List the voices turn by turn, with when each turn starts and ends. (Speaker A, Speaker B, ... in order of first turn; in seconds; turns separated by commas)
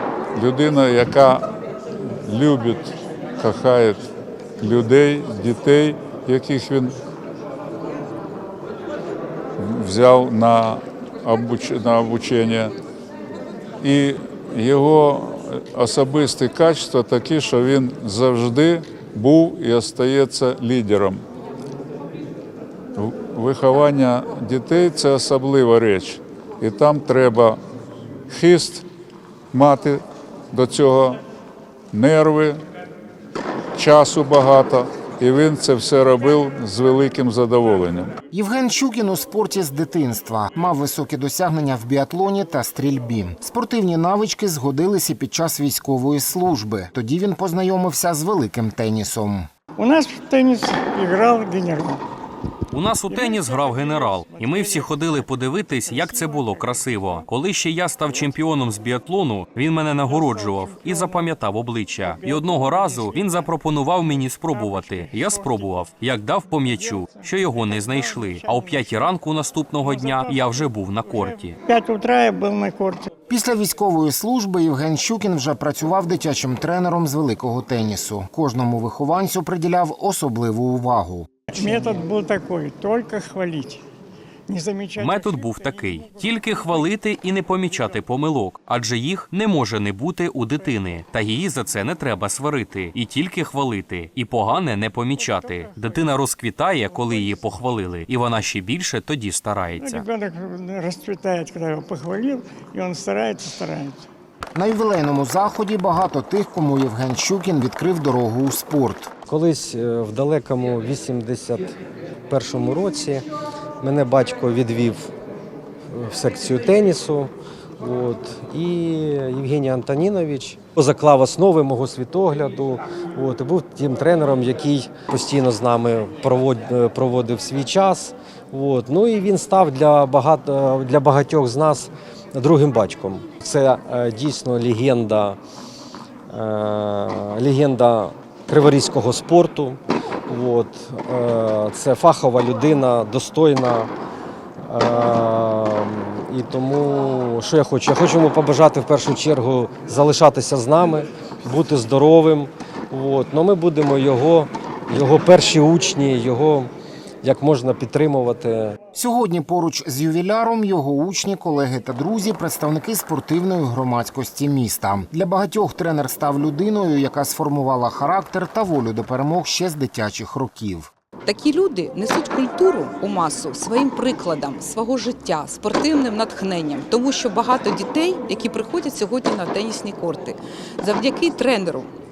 Speaker A: 0.3-1.5, Speaker A: 2.2-4.0, Speaker A: 4.6-7.0, Speaker A: 9.6-12.7, Speaker A: 13.8-21.2, Speaker A: 23.0-27.6, Speaker A: 28.3-28.9, Speaker A: 29.5-31.2, Speaker A: 31.9-32.6, Speaker A: 33.8-38.1, Speaker B: 38.3-49.5, Speaker C: 49.8-52.0, Speaker D: 52.7-71.6, Speaker C: 53.1-57.2, Speaker C: 60.0-61.4, Speaker C: 62.0-65.9, Speaker C: 66.6-69.1, Speaker C: 69.8-73.1, Speaker B: 73.3-81.3, Speaker C: 81.5-83.8, Speaker C: 84.5-88.0, Speaker D: 85.0-100.1, Speaker C: 94.5-96.2, Speaker C: 96.9-97.5, Speaker C: 99.8-104.1, Speaker B: 104.5-109.1, Speaker E: 109.3-111.8, Speaker E: 112.3-113.3, Speaker E: 113.8-115.1, Speaker E: 115.9-135.4, Speaker E: 136.3-143.9, Speaker E: 144.6-156.7, Speaker E: 157.2-158.8, Speaker B: 158.9-170.9, Speaker F: 171.2-181.9